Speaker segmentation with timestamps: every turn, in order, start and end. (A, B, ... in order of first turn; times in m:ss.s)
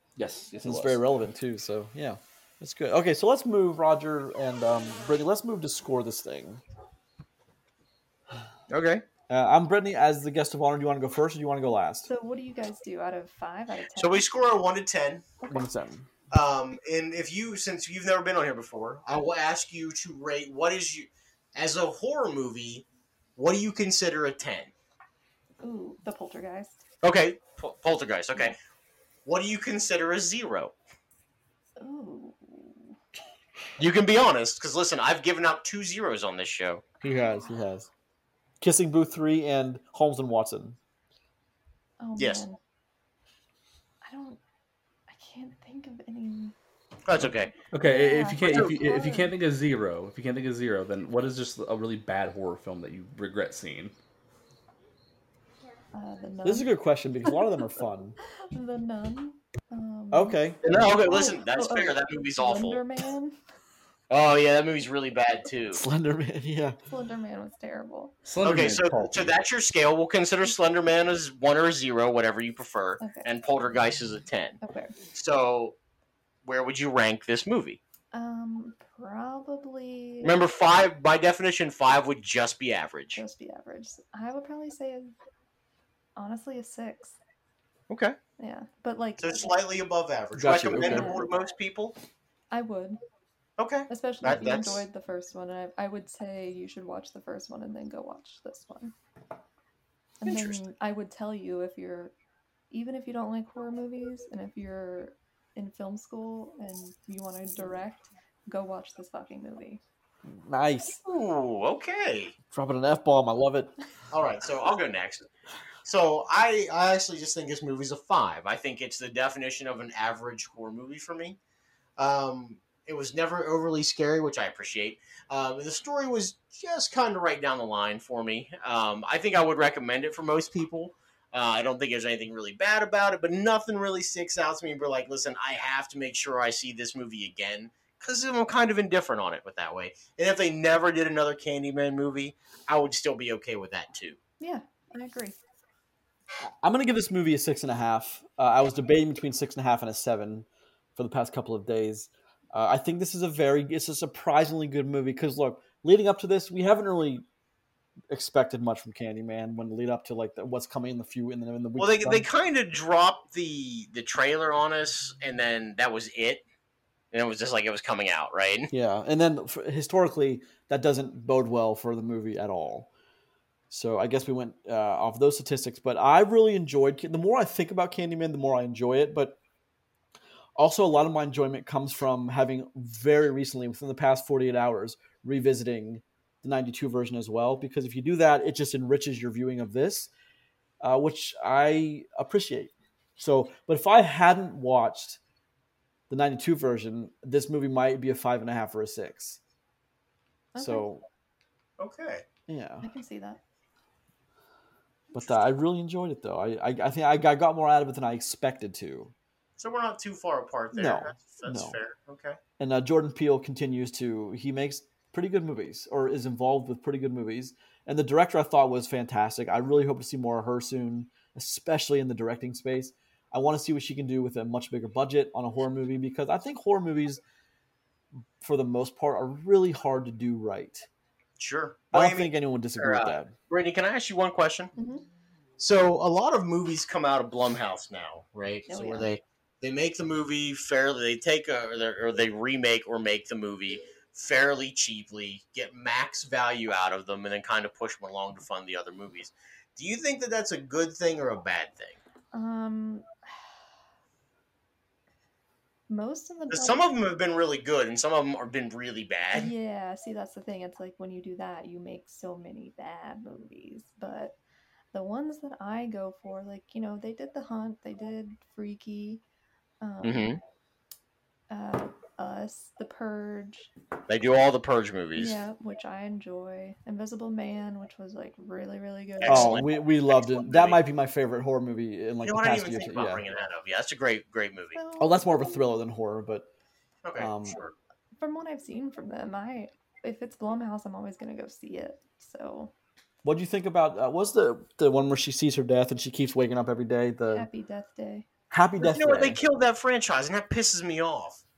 0:00.2-0:01.0 A
0:00.6-0:06.6 B
0:08.7-0:09.0 C
0:09.3-0:12.1 B
0:12.1-0:14.3 D
0:14.0-0:15.3 C
0:15.5-0:16.1 B
0:16.3-0:24.7 C
0:25.6-0:26.8 D
0:27.0-0:28.5 C
0:29.2-0:30.7 C
0:31.8-0:33.0 D
0:33.8-0:36.8 C
0:37.0-0:37.9 B
0:38.6-0:40.8 B
0:42.0-0:42.6 D
0:42.2-0:42.4 C
0:44.0-0:44.4 D
0:45.1-0:46.6 D
0:47.1-0:47.5 C
0:47.2-0:53.9 A
0:47.8-0:49.3 D
0:55.9-0:56.7 D
0:56.4-0:58.2 B
0:57.2-0:57.5 D
0:58.4-1:03.4 D
1:00.1-1:00.6 B
1:00.6-1:02.8 C
1:04.1-1:05.8 C
1:05.7-1:06.8 B
1:06.9-1:08.2 D
1:08.2-1:09.4 A
1:08.4-1:14.6 C
1:13.0-1:13.3 D
1:14.6-1:15.0 D
1:15.1-1:15.8 C
1:16.4-1:17.8 C
1:18.1-1:20.4 D
1:20.2-1:23.2 C
1:23.2-1:25.1 D
1:26.2-1:27.2 D
1:27.9-1:28.2 C
1:28.4-1:29.6 D
1:29.2-1:32.0 C
1:30.4-1:31.2 B
1:30.8-1:31.3 D
1:32.5-1:33.0 D
1:33.6-1:34.8 C
1:33.9-1:38.9 D
1:40.2-1:42.1 D
1:40.3-1:40.6 C
1:42.7-1:49.8 D
1:50.2-1:51.0 B
1:51.0-1:52.3 C
1:52.5-1:53.7 B
1:54.1-1:55.3 C
1:55.8-2:01.4 C
2:02.0-2:24.2 C
2:24.4-2:25.4 D
2:26.6-2:37.2 B
2:38.1-2:42.2 B
2:41.8-2:46.4 C
2:47.1-2:48.7 C
2:48.7-2:52.9 B
2:53.7-2:59.4 B
3:00.6-3:10.1 B
3:10.8-3:15.2 B
3:16.1-3:19.4 B
3:20.5-3:20.9 D
3:20.6-3:21.0 B
3:21.8-3:22.2 C
3:22.5-3:22.8 B
3:22.8-3:23.4 D
3:25.1-3:29.1 B
3:29.6-3:32.4 C
3:30.7-3:31.8 B
3:32.6-3:47.2 B
3:48.4-3:50.9 B
3:51.4-3:54.7 C
3:51.9-3:53.3 B
3:54.8-3:55.0 D
3:55.6-4:12.0 C
3:58.7-3:59.2 D
4:12.3-4:13.5 D
4:15.9-4:16.8 D
4:16.5-4:19.5 C
4:19.3-4:24.4 D
4:24.9-4:29.2 D
4:29.8-4:30.4 D
4:30.0-4:30.4 C
4:31.5-4:33.7 D
4:34.1-4:35.4 C
4:35.2-4:39.6 D
4:39.2-4:40.8 C
4:39.3-4:43.2 B
4:42.2-4:44.8 C
4:44.8-4:45.7 D
4:45.0-4:46.5 B
4:47.0-4:47.7 C
4:47.2-4:47.6 B
4:48.2-4:52.7 D
4:53.2-4:57.5 B
4:57.3-4:58.3 D
4:58.5-4:59.4 B
4:58.8-5:01.4 C